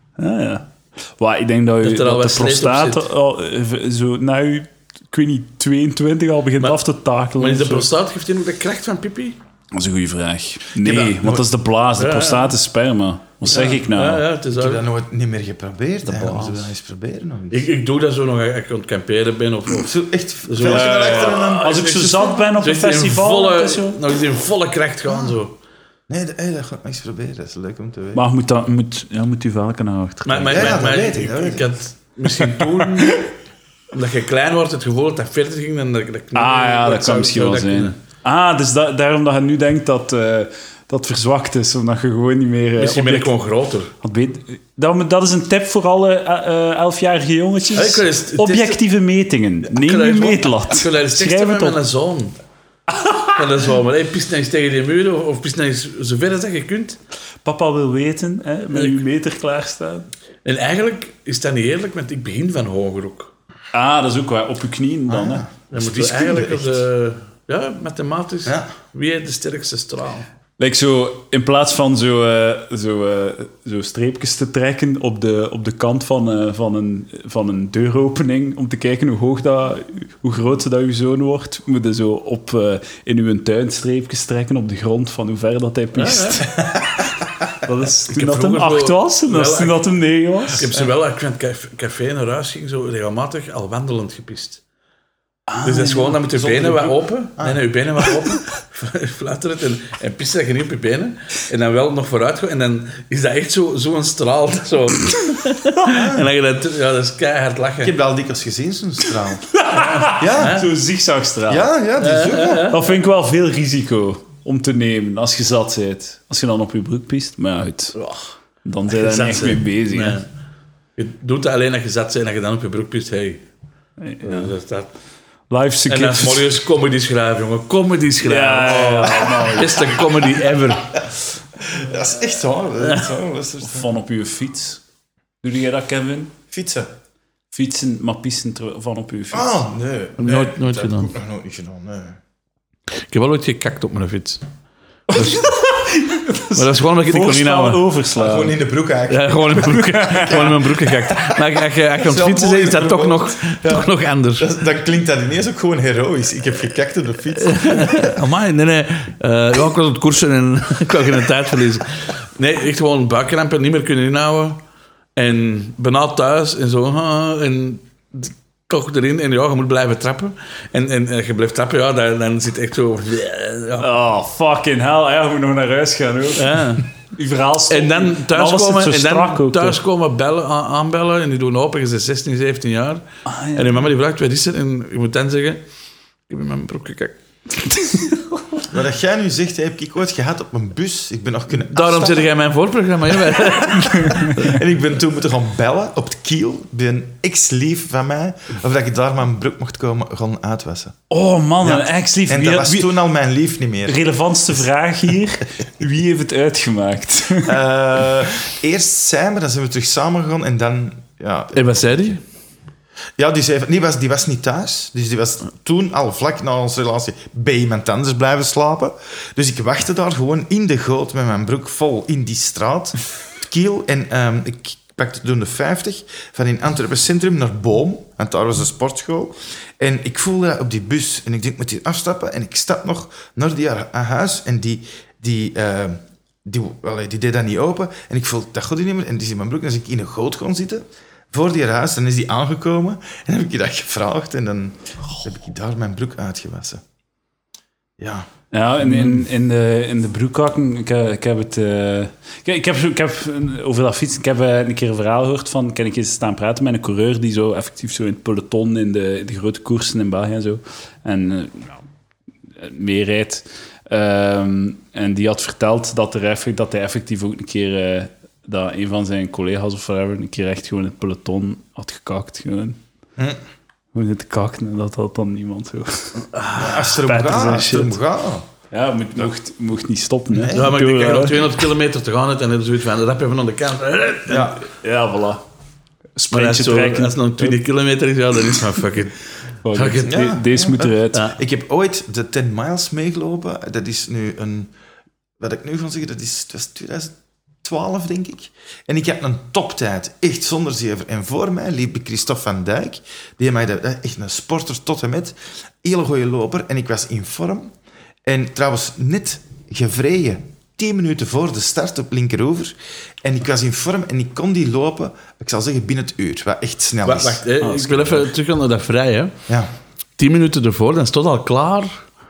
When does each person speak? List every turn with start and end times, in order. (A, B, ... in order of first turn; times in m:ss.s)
0:00.2-0:07.9 A
0:01.8-0:03.1 B
0:07.4-0:09.4 B
0:09.7-0:14.2 A
0:10.8-0:11.4 C
0:12.0-0:12.5 B
0:13.5-0:14.8 B
0:14.5-0:17.6 C
0:16.1-0:16.4 A
0:16.2-0:16.6 B
0:17.5-0:20.0 B
0:19.8-0:21.8 C
0:20.5-0:25.5 B
0:20.7-0:24.0 A
0:26.1-0:28.2 C
0:28.1-0:30.9 A
0:30.2-0:33.3 B
0:30.5-0:31.7 C
0:32.8-0:33.3 A
0:33.9-0:37.9 B
0:36.3-0:43.3 A
0:42.8-0:43.9 B
0:44.0-0:51.8 A
0:47.7-0:48.8 B
0:49.7-0:52.4 B
0:52.9-0:53.4 A
0:53.3-0:57.0 B
0:57.4-1:00.1 A
0:58.7-0:59.0 B
1:00.4-1:03.3 B
1:03.7-1:05.4 A
1:05.1-1:06.8 C
1:05.7-1:10.3 B
1:10.6-1:27.0 A
1:25.9-1:26.5 B
1:27.6-1:30.6 A
1:28.1-1:29.8 B
1:30.5-1:34.6 B
1:35.5-1:36.3 A
1:35.6-1:47.9 B
1:36.4-1:37.6 C
1:45.9-1:46.3 C
1:47.8-1:49.5 C
1:49.5-1:51.7 A
1:49.7-1:50.7 B
1:50.1-1:50.6 C
1:51.5-1:52.7 C
1:52.0-1:53.0 B
1:52.7-1:58.0 A
1:58.0-1:58.3 B
1:58.6-2:00.2 A
1:58.9-2:00.2 B
2:01.0-2:03.4 B
2:04.0-2:04.5 A
2:04.2-2:04.9 B
2:05.5-2:06.4 A
2:05.9-2:11.0 B
2:08.2-2:10.1 A
2:11.6-2:13.9 C
2:13.6-2:14.8 A
2:15.4-2:16.3 A
2:16.5-2:16.9 C
2:17.5-2:19.6 A
2:19.3-2:22.2 C
2:20.2-2:21.1 B
2:23.0-2:24.4 B
2:25.1-2:28.6 A
2:25.1-2:25.4 B
2:26.6-2:27.8 B
2:28.2-2:38.2 C
2:29.1-2:34.5 B
2:29.6-2:30.6 A
2:37.4-2:44.6 B
2:45.2-2:53.9 B
2:53.8-2:59.8 A
2:56.4-2:56.8 B
2:57.7-3:03.0 B
3:03.2-3:03.8 A
3:03.5-3:05.6 B
3:06.3-3:07.2 B
3:08.7-3:12.3 C
3:11.7-3:14.5 B
3:13.2-3:21.0 C
3:13.8-3:14.3 A
3:21.1-3:22.9 A
3:21.6-3:24.0 C
3:23.9-3:27.6 A
3:27.4-3:31.6 C
3:31.5-3:32.2 B
3:33.2-4:06.8 C
4:08.0-4:08.3 C
4:08.5-4:21.7 A
4:22.6-4:32.8 A
4:33.9-4:38.0 A
4:36.3-4:36.8 B
4:36.6-4:38.4 C
4:38.7-4:41.4 A
4:40.3-4:40.7 C
4:40.5-4:44.6 B
4:44.3-4:44.6 C
4:44.7-4:45.4 A
4:46.2-4:47.6 A
4:46.3-4:49.2 B
4:49.6-4:51.3 A
4:49.7-4:50.2 B
4:50.0-4:54.7 C
4:55.4-5:07.7 C
5:08.2-5:17.4 C
5:17.0-5:19.4 B
5:17.6-5:18.3 A
5:20.2-5:22.0 B